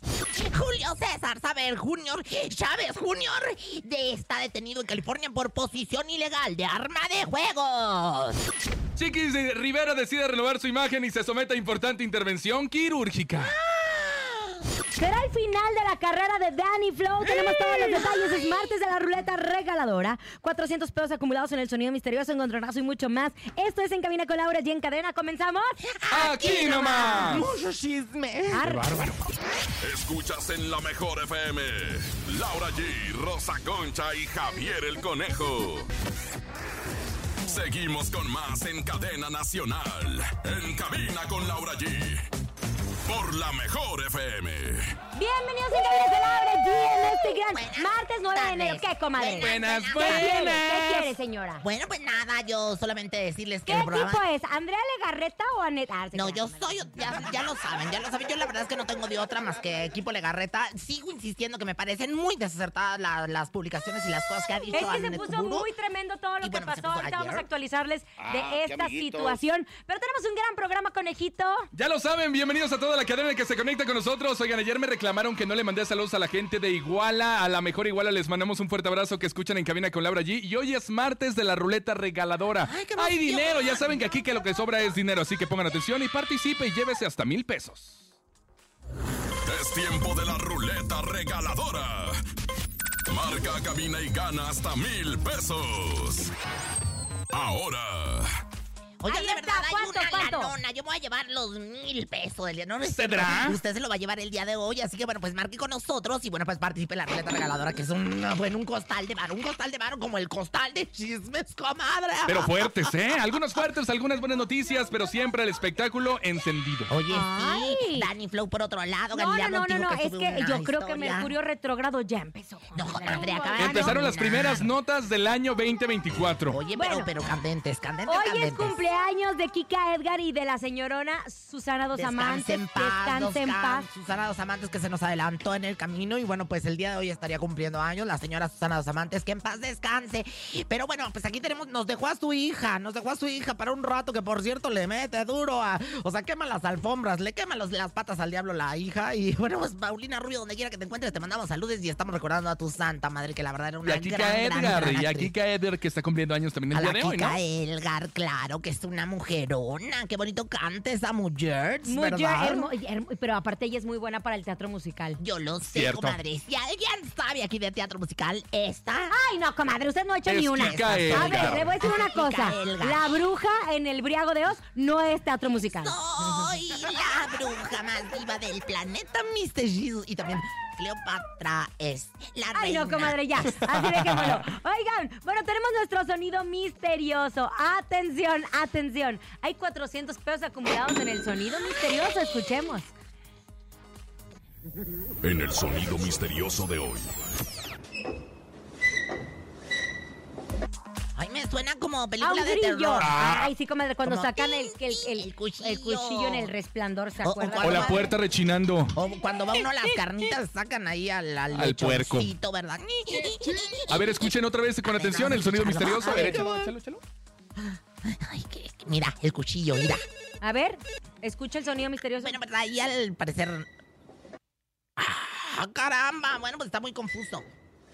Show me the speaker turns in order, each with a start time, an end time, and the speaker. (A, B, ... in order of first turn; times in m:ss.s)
0:00.3-0:08.4 A
0:09.0-0:13.5 B
0:13.3-0:14.6 A
0:15.0-0:25.8 C
0:17.2-0:18.5 A
0:25.8-0:29.1 A
0:26.1-0:27.5 B
0:27.0-0:27.4 C
0:28.5-0:29.1 C
0:29.8-0:35.9 D
0:37.4-0:42.3 D
0:43.0-0:44.9 D
0:45.1-0:51.6 C
0:47.5-0:50.3 A
0:49.4-0:51.1 B
0:51.6-0:54.2 A
0:53.7-0:57.2 C
0:56.1-1:05.7 A
1:04.7-1:11.7 C
1:06.4-1:07.5 A
1:11.7-1:28.0 B
1:22.6-1:24.2 A
1:29.5-1:32.2 D
1:33.1-1:36.3 D
1:37.3-1:38.3 D
1:39.0-1:53.7 A
1:39.1-1:40.6 C
1:42.9-1:43.6 B
1:52.3-1:56.9 B
1:56.9-2:01.3 A
1:57.1-1:58.1 C
1:59.1-2:04.1 C
2:02.7-2:04.7 A
2:03.6-2:06.6 B
2:06.5-2:08.8 A
2:06.7-2:07.1 C
2:08.1-2:13.9 C
2:11.9-2:35.3 A
2:33.8-2:37.4 B
2:36.7-2:42.7 A
2:41.9-2:45.2 C
2:45.2-2:49.1 A
2:45.7-2:46.2 B
2:49.1-2:56.5 C
2:50.3-2:51.7 B
2:50.5-2:53.2 A
2:55.8-3:03.2 A
3:02.5-3:12.9 C
3:15.2-3:17.1 D
3:21.1-3:23.3 A
3:22.2-3:28.1 C
3:23.0-3:23.4 B
3:24.0-3:26.5 A
3:27.2-3:28.1 A
3:27.6-3:28.9 B
3:28.9-3:34.3 A
3:31.5-3:32.3 B
3:33.9-3:37.0 B
3:34.8-3:36.5 A
3:36.0-3:36.6 C
3:38.0-3:40.0 A
3:40.4-3:42.4 C
3:42.2-3:43.7 A
3:45.0-3:47.4 A